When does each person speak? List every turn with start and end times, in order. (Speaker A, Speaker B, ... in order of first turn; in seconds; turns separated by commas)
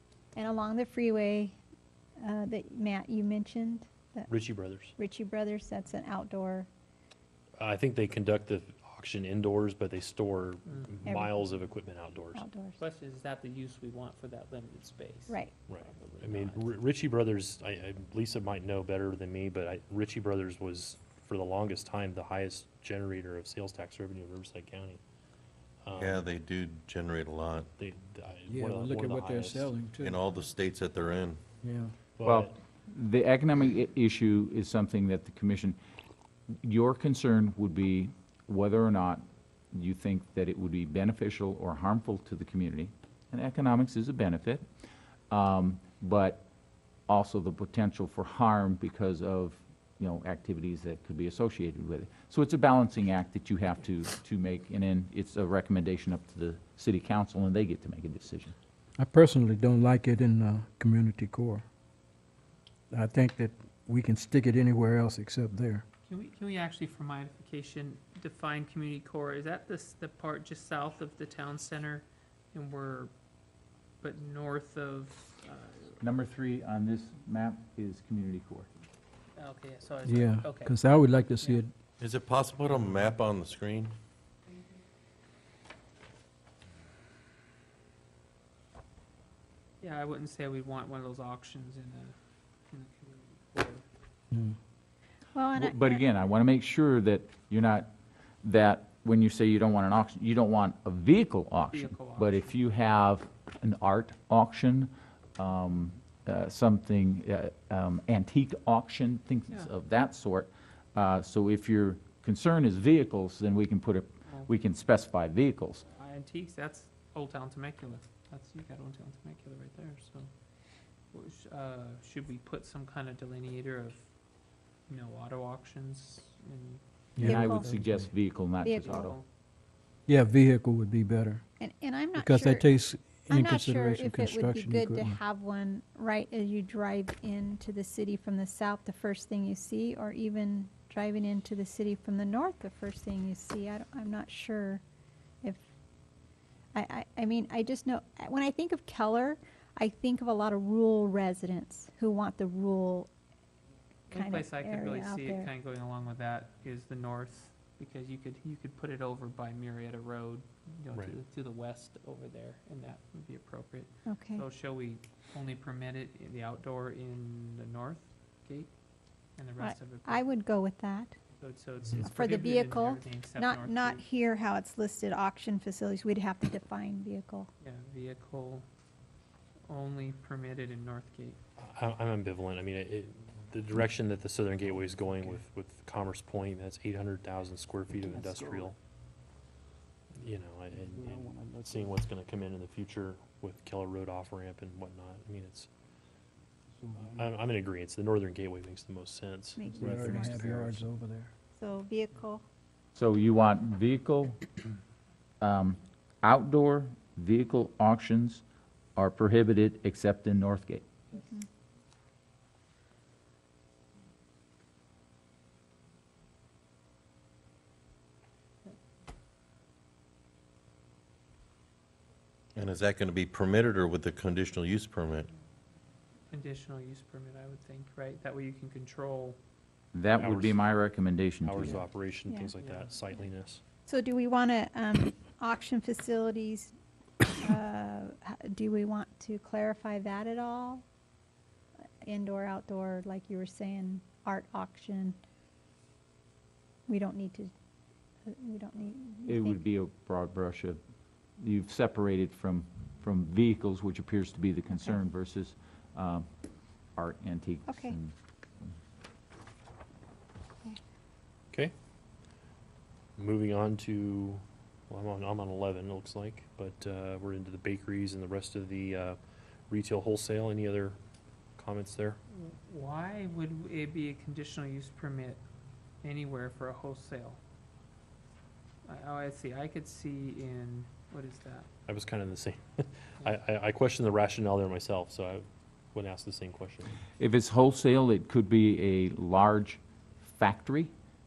Speaker A: 0.3-1.5, Speaker A: 2.2-4.3, Speaker B: 4.3-4.9, Speaker A: 5.0-6.7, Speaker B: 7.6-12.4, Speaker C: 10.7-11.0, Speaker A: 12.3-12.8, Speaker C: 12.8-16.7, Speaker B: 15.7-25.0, Speaker B: 25.8-26.2, Speaker D: 25.9-27.7, Speaker B: 27.8-29.8, Speaker E: 28.5-30.2, Speaker D: 30.0-31.4, Speaker E: 31.6-31.9, Speaker B: 32.1-32.5, Speaker F: 32.2-35.8, Speaker F: 36.6-44.6, Speaker F: 45.3-46.4, Speaker F: 47.1-58.5, Speaker E: 59.0-61.6, Speaker E: 62.9-65.8, Speaker C: 66.1-73.1, Speaker C: 74.0-76.0, Speaker F: 76.0-78.7, Speaker C: 79.3-81.6, Speaker E: 80.0-81.7, Speaker D: 82.0-83.9, Speaker C: 89.8-92.1, Speaker C: 92.7-93.8, Speaker A: 95.3-96.0, Speaker F: 95.5-97.9, Speaker F: 98.4-115.8, Speaker C: 101.7-102.6, Speaker C: 116.0-120.3, Speaker C: 121.1-124.1, Speaker C: 124.9-126.8, Speaker E: 127.2-128.1, Speaker F: 127.2-129.1, Speaker A: 127.2-127.7, Speaker A: 128.6-129.1, Speaker C: 128.6-129.2, Speaker E: 130.1-131.4, Speaker A: 131.6-132.7, Speaker E: 132.1-135.2, Speaker A: 133.3-144.8, Speaker A: 146.7-153.1, Speaker C: 154.1-168.7, Speaker A: 154.1-155.5, Speaker A: 164.1-164.4, Speaker C: 169.4-170.2, Speaker A: 169.6-171.2, Speaker C: 171.4-174.0, Speaker A: 172.0-177.5, Speaker C: 177.6-178.7, Speaker C: 179.7-181.4, Speaker B: 181.6-188.8, Speaker C: 188.0-188.7, Speaker B: 190.2-195.7, Speaker E: 190.9-191.9, Speaker E: 196.8-197.2, Speaker B: 196.9-200.8, Speaker A: 199.6-200.5, Speaker E: 199.7-201.3, Speaker A: 201.6-202.4, Speaker F: 202.9-204.4, Speaker F: 205.4-208.4, Speaker F: 208.9-210.8, Speaker D: 222.5-225.3, Speaker C: 226.3-229.4, Speaker F: 229.9-231.8, Speaker B: 230.1-230.6, Speaker B: 231.4-233.6, Speaker C: 232.6-232.9, Speaker A: 233.9-236.7, Speaker A: 237.4-240.8, Speaker A: 242.0-245.2, Speaker A: 246.9-247.5, Speaker A: 248.3-249.6, Speaker F: 249.3-250.8, Speaker F: 251.4-256.3, Speaker A: 254.7-255.0, Speaker F: 256.9-258.1, Speaker A: 257.7-257.9, Speaker B: 263.2-269.2, Speaker B: 269.7-271.0, Speaker B: 271.6-272.2, Speaker C: 272.3-275.4, Speaker C: 276.0-277.4, Speaker C: 278.8-281.7, Speaker B: 281.9-286.9, Speaker F: 287.2-290.9